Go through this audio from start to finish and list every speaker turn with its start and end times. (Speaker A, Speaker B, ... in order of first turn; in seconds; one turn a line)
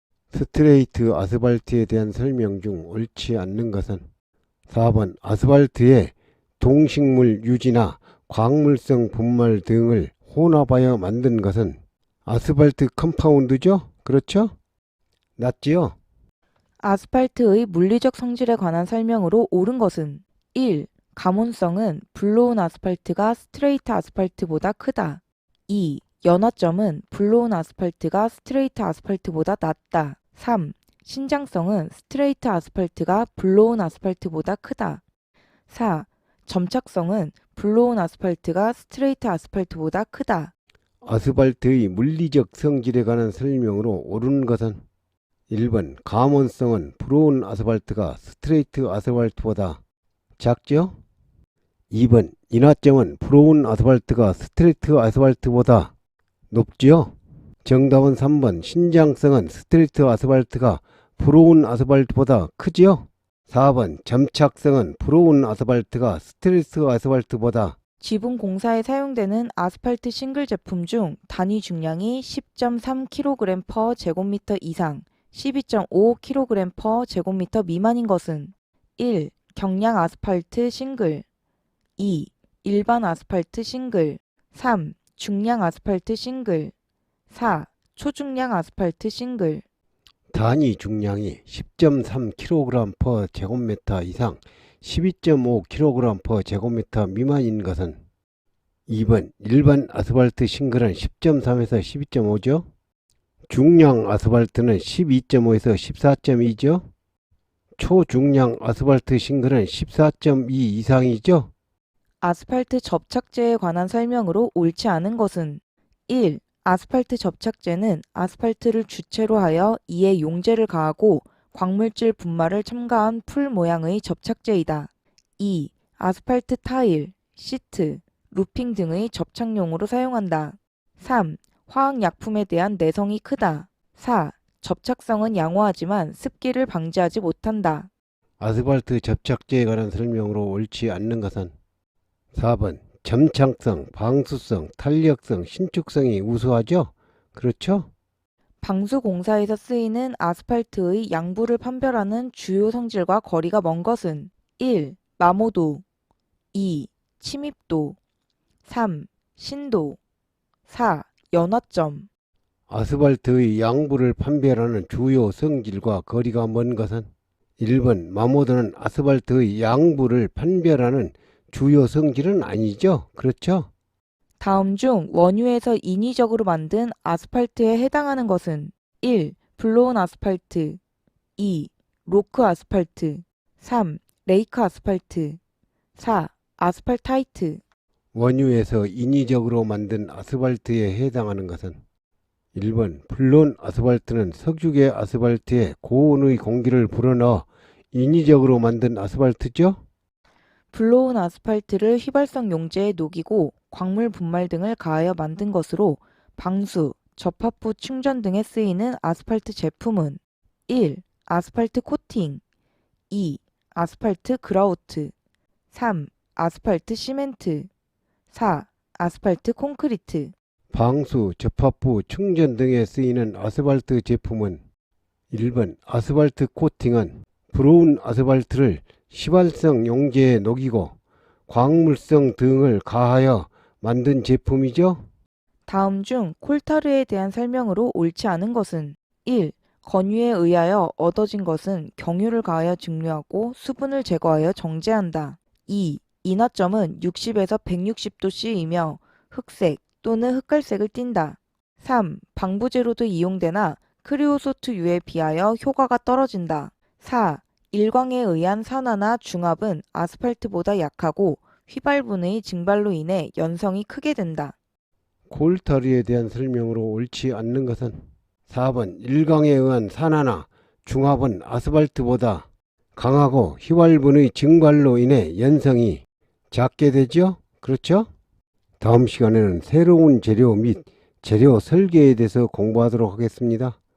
Speaker A: 0.3-4.0
Speaker A: 4.7-14.5
Speaker A: 15.4-15.9
Speaker B: 16.8-35.0
Speaker B: 35.7-40.5
Speaker A: 41.0-44.8
Speaker A: 45.5-49.8
Speaker A: 50.4-51.0
Speaker A: 51.9-55.9
Speaker A: 56.5-67.8
Speaker B: 68.0-81.2
Speaker B: 82.0-86.7
Speaker B: 87.3-89.6
Speaker A: 90.3-98.0
Speaker A: 98.9-102.7
Speaker A: 103.5-106.9
Speaker A: 107.8-111.5
Speaker B: 112.2-137.9
Speaker A: 138.4-141.5
Speaker A: 142.3-147.9
Speaker B: 148.6-155.8
Speaker B: 156.5-158.0
Speaker B: 158.6-160.0
Speaker B: 160.7-162.1
Speaker A: 162.7-167.1
Speaker A: 167.6-173.7
Speaker B: 174.4-180.8
Speaker B: 181.4-185.4
Speaker B: 185.9-187.6
Speaker A: 188.1-191.8
Speaker A: 192.5-199.8
Speaker B: 200.7-212.4
Speaker B: 213.1-215.1
Speaker B: 215.7-217.7
Speaker B: 218.3-220.3
Speaker A: 220.7-224.6
Speaker A: 225.3-230.9
Speaker A: 231.5-235.1
Speaker B: 235.7-264.5
Speaker A: 265.3-278.1
Speaker A: 278.8-283.8